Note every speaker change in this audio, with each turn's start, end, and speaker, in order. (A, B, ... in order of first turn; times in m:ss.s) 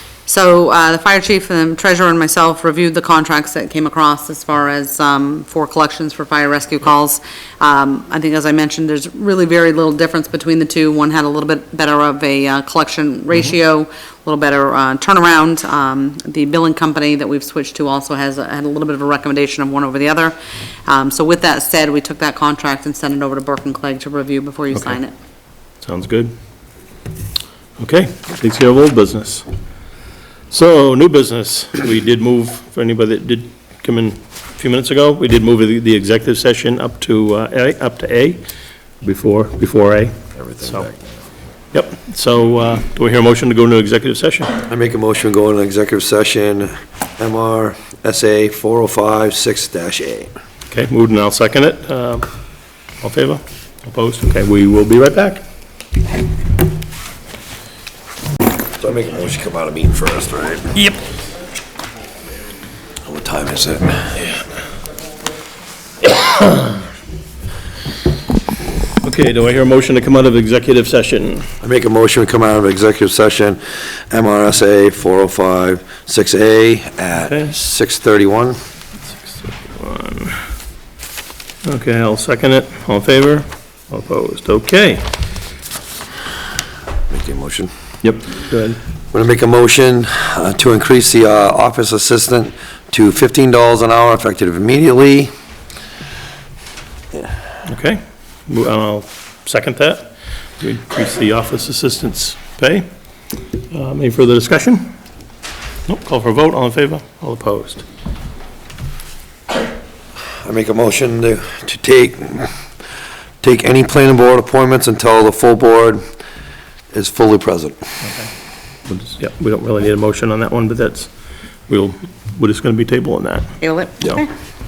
0:00.3-0:25.1 A
0:25.8-0:26.3 B
0:27.8-0:29.4 B
0:30.5-0:38.4 B
0:39.0-0:40.9 B
0:40.4-0:41.2 C
0:41.7-0:44.6 B
0:44.7-0:50.3 C
0:50.7-0:52.3 B
0:53.0-0:55.4 B
0:58.8-1:00.8 C
1:03.0-1:04.3 C
1:06.1-1:06.8 B
1:09.0-1:11.5 B
1:11.6-1:18.6 C
1:17.2-1:17.5 B
1:19.3-1:20.4 B
1:21.6-1:25.0 B
1:27.1-1:27.7 C
1:28.0-1:28.8 B
1:29.1-1:35.3 C
1:37.7-1:42.9 B
1:43.7-1:44.9 B
1:45.9-1:47.8 B
1:50.4-1:52.5 C
1:53.4-1:56.0 C
1:56.9-1:57.8 C
1:58.9-2:01.1 B
2:01.7-2:03.5 B
2:03.6-2:04.3 A